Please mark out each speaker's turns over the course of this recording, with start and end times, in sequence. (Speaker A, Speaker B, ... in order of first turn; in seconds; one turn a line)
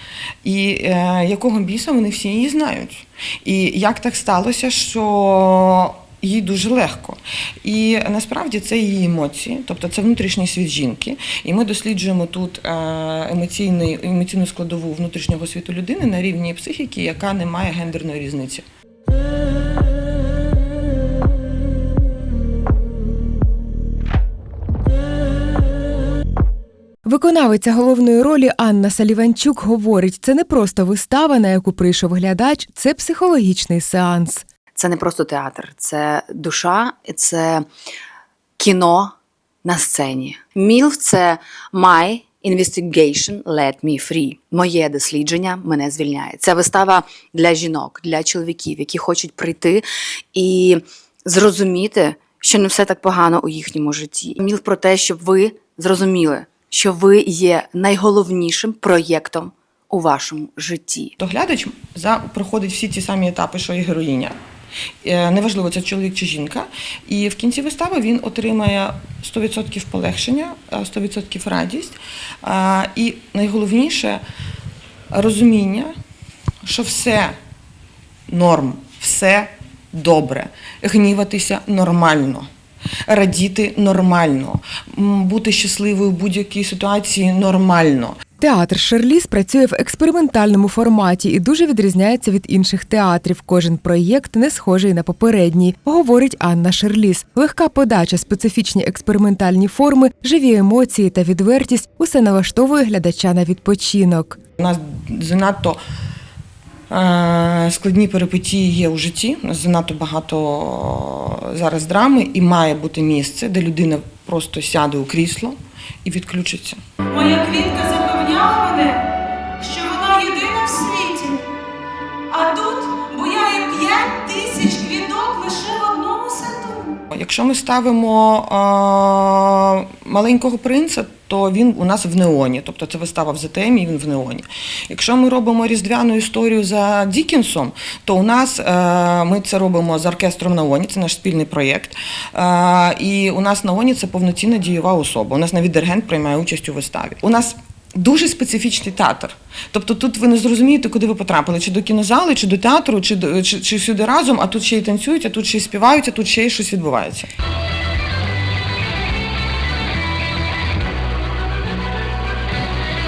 Speaker A: 0.4-18.6
Speaker B: 27.1-34.5
Speaker C: 34.8-37.7
Speaker C: 38.6-61.1
Speaker A: 61.2-64.4
Speaker A: 65.0-74.2
Speaker A: 75.1-75.9
Speaker A: 76.6-77.3
Speaker A: 78.3-82.5
Speaker A: 83.1-88.2
Speaker B: 88.4-104.4
Speaker A: 104.6-105.8
Speaker A: 106.9-116.8
Speaker D: 117.1-119.0
Speaker D: 119.6-121.5
Speaker D: 122.3-127.0
Speaker A: 127.1-157.3